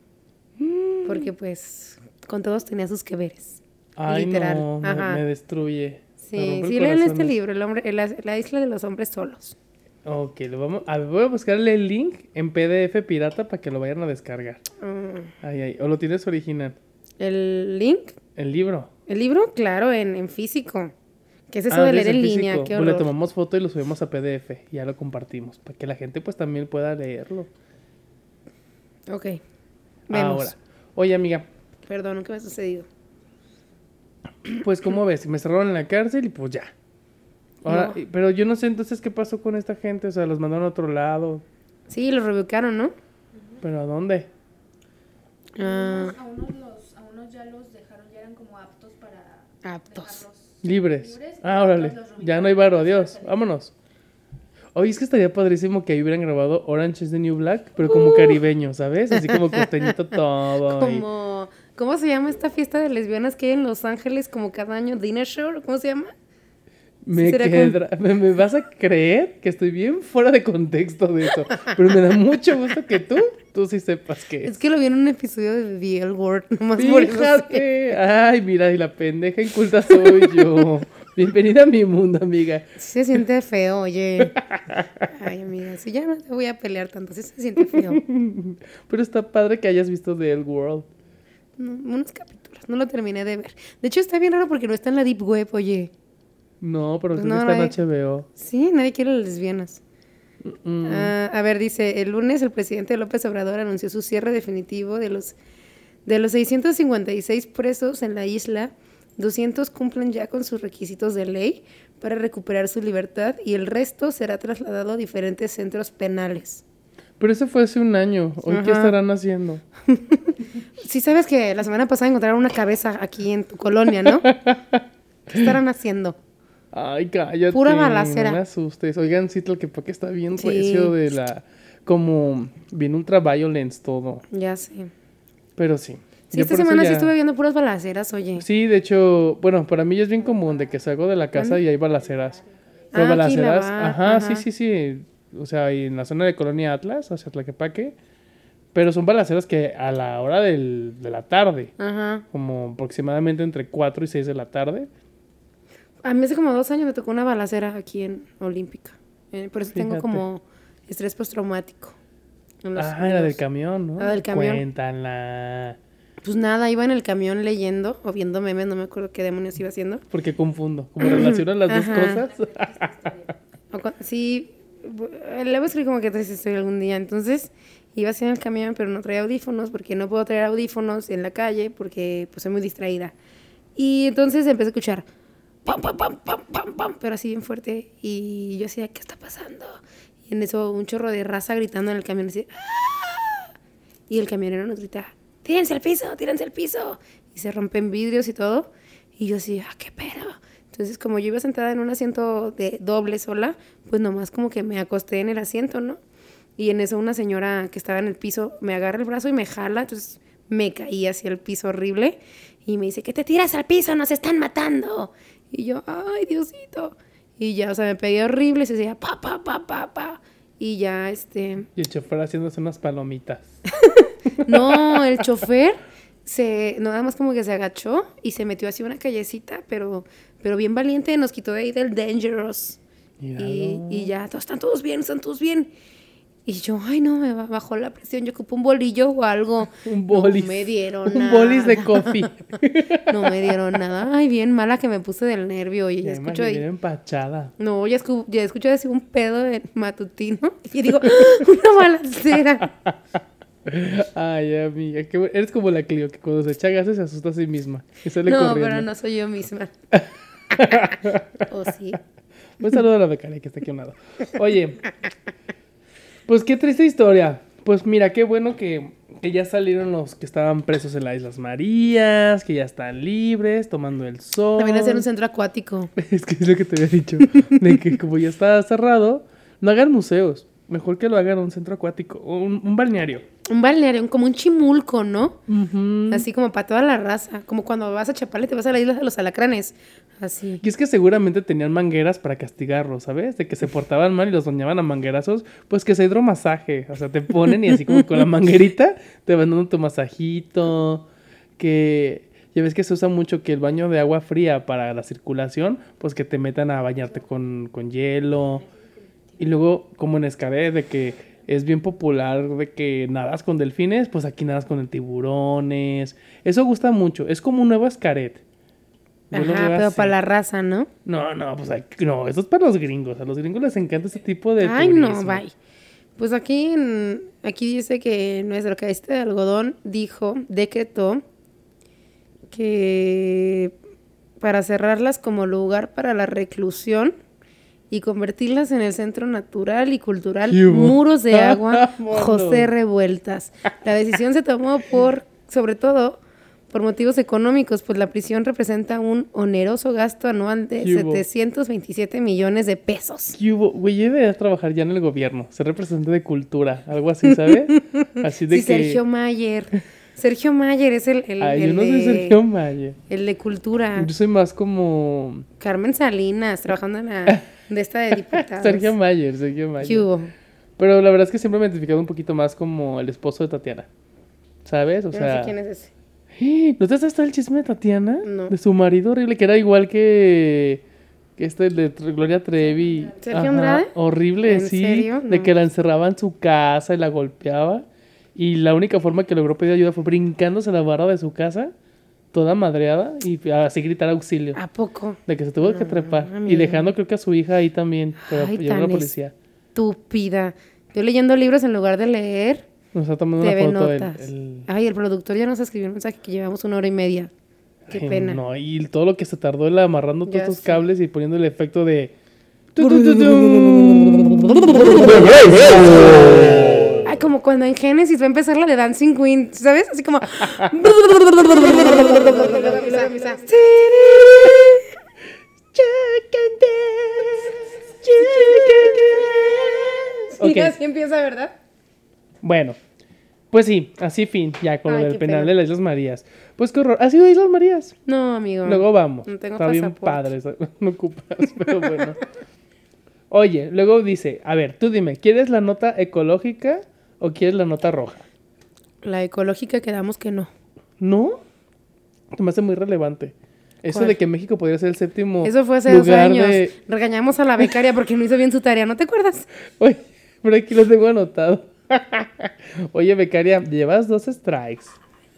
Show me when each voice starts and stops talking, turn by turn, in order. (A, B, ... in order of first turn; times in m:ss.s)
0:00.6-0:01.3 A
0:01.0-0:05.2 B
0:04.0-0:07.3 A
0:06.2-0:09.6 B
0:10.0-0:14.6 A
0:14.8-0:15.3 B
0:15.4-0:16.8 A
0:17.2-0:18.2 B
0:18.4-0:18.9 A
0:19.1-0:20.9 B
0:21.5-0:23.1 B
0:21.7-0:27.5 A
0:29.1-0:29.4 B
0:30.1-0:31.5 A
0:30.1-0:30.5 B
0:31.9-0:32.9 B
0:34.5-0:36.7 A
0:37.6-0:41.4 A
0:37.7-0:38.0 B
0:41.9-0:42.9 B
0:43.3-0:43.6 C
0:43.6-0:44.3 A
0:45.6-0:46.2 B
0:45.6-0:53.5 C
0:49.6-0:50.2 B
0:50.6-0:53.7 A
0:54.8-1:01.0 A
0:57.9-0:58.4 B
0:59.1-0:59.9 B
1:00.6-1:06.1 B
1:07.1-1:14.5 A
1:07.1-1:07.8 B
1:14.4-1:17.7 B
1:16.8-1:22.6 A
1:22.8-1:24.4 B
1:24.4-1:25.0 A
1:25.0-1:28.0 B
1:27.7-1:30.9 A
1:31.6-1:35.9 B
1:36.6-1:38.3 A
1:37.1-1:37.7 B
1:38.4-1:39.8 B
1:40.4-1:41.1 A
1:40.8-1:45.4 B
1:46.1-1:56.6 B
1:57.2-1:59.6 A
1:58.5-1:59.0 B
1:59.9-2:04.3 B
2:04.0-2:05.5 A
2:05.3-2:06.2 B
2:06.7-2:14.2 A
2:07.5-2:08.4 B
2:10.4-2:11.0 B
2:14.3-2:14.9 B
2:15.6-2:17.1 A
2:16.3-2:18.4 B
2:18.4-2:22.4 A
2:20.3-2:20.7 C
2:21.7-2:22.7 C
2:22.9-2:24.5 B
2:22.9-2:28.0 A
2:28.7-2:31.7 A
2:31.8-2:32.2 B
2:32.3-2:34.9 A
2:36.0-2:42.0 B
2:39.7-2:40.2 A
2:42.6-2:43.4 B
2:42.8-2:45.8 A
2:44.0-2:44.6 B
2:46.2-2:50.0 B
2:50.1-2:53.1 A
2:51.0-2:52.3 B
2:52.0-2:53.4 C
2:53.7-3:03.2 B
3:03.8-3:05.1 B
3:05.7-3:13.5 B
3:14.1-3:26.0 B
3:26.6-3:41.7 B
3:41.8-3:43.6 A
3:43.8-3:52.8 B
3:44.3-3:45.2 A
3:53.2-3:54.1 A
3:53.4-3:55.7 B
3:56.5-4:02.4 B
3:59.8-4:03.6 A
4:03.0-4:06.6 B
4:06.0-4:07.5 A
4:07.6-4:12.7 B
4:11.2-4:11.4 A
4:13.6-4:18.9 A
4:18.2-4:19.7 B
4:19.9-4:21.4 A
4:20.6-4:20.9 B
4:21.5-4:22.0 B
4:22.6-4:24.9 A
4:26.3-4:35.1 A
4:34.6-4:35.9 B
4:36.0-4:43.2 A
4:37.3-4:37.8 B
4:43.5-4:45.4 B
4:45.5-4:46.3 A
4:46.1-4:50.6 B
4:50.6-5:01.1 A
5:01.6-5:08.6 A
5:09.4-5:18.4 A
5:19.3-5:20.2 A
5:19.3-5:20.9 B
5:21.0-5:25.4 A
5:24.6-5:25.5 B
5:26.2-5:31.2 B
5:32.5-5:33.8 B
5:34.4-5:37.2 B
5:37.9-5:53.4 B
5:40.5-5:42.7 A
5:50.8-5:51.2 A
5:53.4-5:59.0 A
5:57.3-6:02.4 B
6:01.4-6:03.0 A
6:03.1-6:04.1 B
6:04.0-6:05.5 A
6:05.6-6:09.0 B
6:08.2-6:10.1 A
6:09.8-6:10.3 B
6:10.8-6:13.9 A
6:14.6-6:15.6 A
6:15.1-6:15.9 B
6:16.3-6:20.8 A
6:18.2-6:18.6 B
6:21.4-6:31.7 A
6:23.2-6:23.9 B
6:24.5-6:25.5 B
6:32.3-6:34.6 A
6:34.6-6:36.9 B
6:35.3-6:39.3 A
6:38.2-6:39.1 B
6:39.8-6:42.7 B
6:42.9-6:44.7 A
6:43.4-6:47.3 B
6:47.9-6:52.1 A
6:47.9-6:48.4 B
6:50.3-6:50.8 B
6:52.8-6:57.1 A
6:52.8-6:56.2 B
6:57.0-7:04.9 B
7:02.0-7:03.4 C
7:03.9-7:04.8 A
7:05.7-7:10.8 A
7:08.1-7:11.6 B
7:12.4-7:12.8 A
7:13.5-7:18.0 A
7:14.9-7:15.5 B
7:18.1-7:20.3 B
7:18.6-7:22.2 A
7:23.3-7:28.2 A
7:29.0-7:30.5 B
7:31.0-7:31.4 A
7:32.3-7:36.8 A
7:33.9-7:34.2 B
7:35.4-7:39.5 B
7:39.8-7:45.0 A